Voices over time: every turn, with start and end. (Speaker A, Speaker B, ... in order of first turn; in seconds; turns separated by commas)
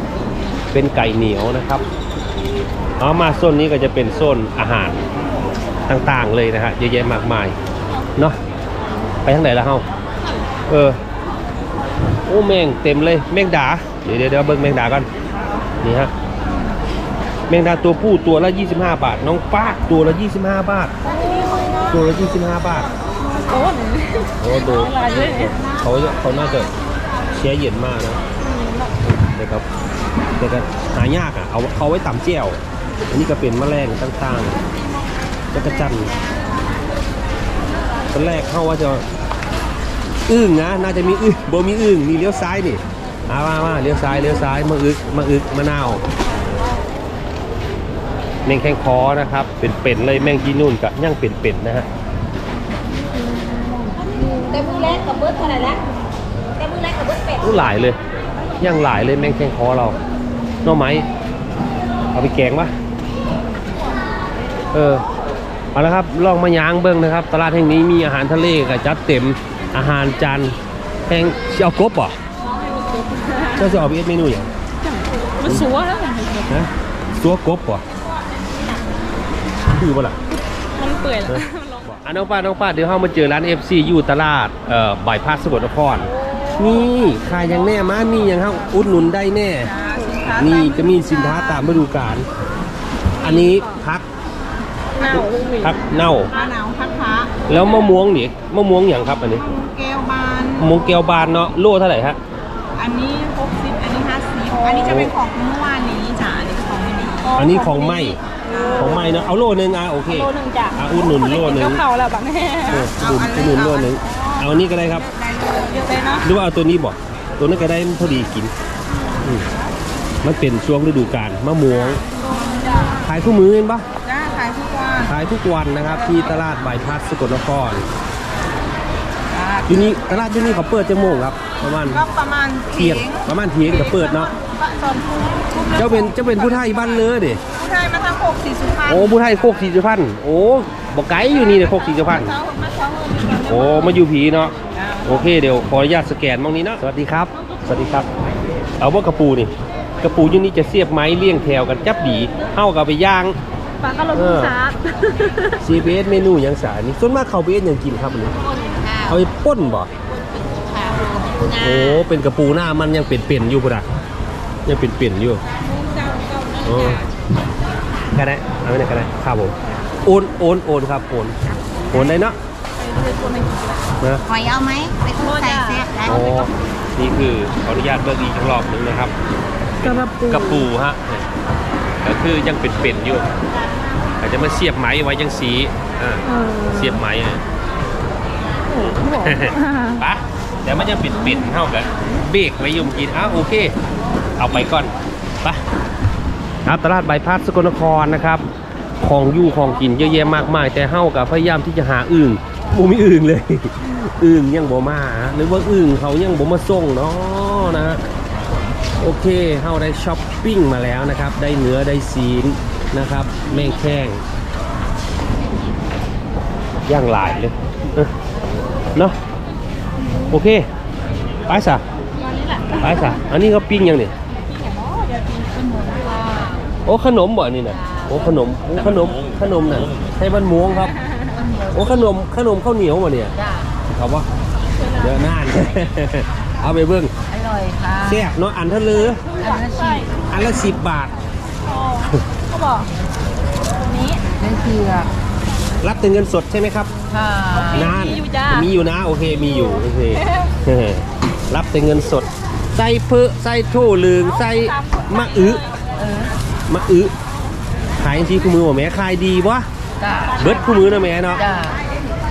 Speaker A: 0.7-1.8, Speaker A: 3.0-5.0, Speaker A: 5.9-7.5, Speaker A: 9.2-9.9, Speaker A: 10.7-11.0, Speaker A: 12.2-15.1, Speaker A: 15.8-16.1, Speaker A: 17.5-20.9, Speaker B: 21.1-21.8, Speaker A: 21.9-22.9, Speaker B: 23.5-25.6, Speaker A: 24.4-26.7, Speaker A: 27.3-28.2, Speaker B: 28.4-28.9, Speaker A: 29.4-29.6, Speaker A: 30.4-32.6, Speaker A: 33.1-34.6, Speaker A: 35.5-36.1, Speaker A: 38.1-39.0, Speaker A: 40.3-46.0, Speaker A: 48.4-51.9, Speaker B: 53.3-55.7, Speaker C: 54.4-55.8, Speaker C: 56.6-57.4, Speaker A: 57.4-58.0, Speaker A: 58.6-60.0, Speaker A: 60.6-61.1, Speaker A: 62.1-62.7, Speaker A: 64.7-65.0, Speaker A: 65.7-72.2, Speaker B: 72.4-73.8, Speaker A: 73.5-74.5, Speaker B: 74.8-76.6, Speaker A: 75.5-75.7, Speaker A: 76.5-77.8, Speaker A: 79.7-80.2, Speaker B: 80.7-81.8, Speaker A: 81.3-89.7, Speaker B: 86.3-86.6, Speaker C: 89.6-91.5, Speaker A: 90.3-92.3, Speaker B: 93.2-93.7, Speaker A: 93.2-94.0, Speaker B: 95.0-96.5, Speaker A: 95.6-96.3, Speaker C: 96.3-97.3, Speaker A: 97.5-99.5, Speaker C: 99.3-100.7, Speaker A: 100.5-102.2, Speaker C: 102.8-107.4, Speaker B: 104.5-105.0, Speaker A: 104.8-105.1, Speaker B: 107.2-109.3, Speaker A: 107.3-108.2, Speaker C: 108.5-108.9, Speaker A: 108.7-111.8, Speaker B: 110.1-112.9, Speaker A: 112.7-115.1, Speaker C: 112.8-116.3, Speaker B: 115.7-116.3, Speaker A: 116.2-118.5, Speaker A: 119.2-119.5, Speaker A: 120.2-122.0, Speaker B: 122.2-123.0, Speaker C: 122.3-123.0, Speaker A: 123.0-123.8, Speaker C: 124.0-125.1, Speaker A: 125.0-127.8, Speaker C: 126.1-126.3, Speaker C: 129.3-130.0, Speaker A: 129.7-132.0, Speaker C: 131.8-139.1, Speaker A: 132.7-134.3, Speaker A: 135.7-137.4, Speaker A: 138.8-142.4, Speaker C: 141.5-144.0, Speaker A: 143.4-144.5, Speaker A: 145.0-148.1, Speaker A: 148.8-153.4, Speaker B: 153.8-155.6, Speaker A: 154.1-154.6, Speaker A: 155.6-158.4, Speaker C: 158.4-159.2, Speaker A: 159.0-159.9, Speaker C: 160.4-162.0, Speaker A: 161.5-163.8, Speaker A: 164.7-165.4, Speaker B: 165.8-166.9, Speaker A: 166.6-167.1, Speaker A: 168.1-171.3, Speaker A: 171.9-172.4, Speaker B: 172.8-173.9, Speaker A: 174.0-174.2, Speaker C: 174.3-176.3, Speaker B: 175.2-176.4, Speaker A: 176.0-179.1, Speaker B: 179.8-180.7, Speaker A: 179.8-181.2, Speaker A: 182.0-183.3, Speaker A: 184.2-187.4, Speaker B: 186.2-187.0, Speaker B: 188.7-190.0, Speaker A: 189.1-193.7, Speaker A: 194.4-195.6, Speaker A: 196.6-198.4, Speaker A: 199.0-208.0, Speaker A: 209.0-214.2, Speaker A: 216.9-218.1, Speaker A: 220.3-220.7, Speaker A: 221.5-221.8, Speaker B: 222.2-223.0, Speaker A: 222.7-224.1, Speaker B: 224.4-225.6, Speaker C: 225.4-226.7, Speaker A: 226.8-230.9, Speaker C: 231.3-231.9, Speaker A: 231.7-233.3, Speaker C: 233.4-233.7, Speaker A: 233.9-234.3, Speaker B: 234.8-235.2, Speaker A: 234.9-237.1, Speaker C: 237.3-238.3, Speaker A: 238.0-239.2, Speaker B: 239.3-240.1, Speaker C: 239.4-240.1, Speaker A: 240.3-241.2, Speaker B: 241.7-242.9, Speaker B: 243.9-244.2, Speaker C: 244.1-245.1, Speaker A: 245.8-246.9, Speaker C: 247.1-247.9, Speaker B: 247.5-248.7, Speaker A: 247.6-255.7, Speaker B: 250.2-250.4, Speaker B: 254.8-255.6, Speaker C: 256.0-256.3, Speaker A: 256.7-257.1, Speaker A: 258.0-259.7, Speaker C: 260.0-260.6, Speaker A: 260.3-261.5, Speaker C: 261.4-261.8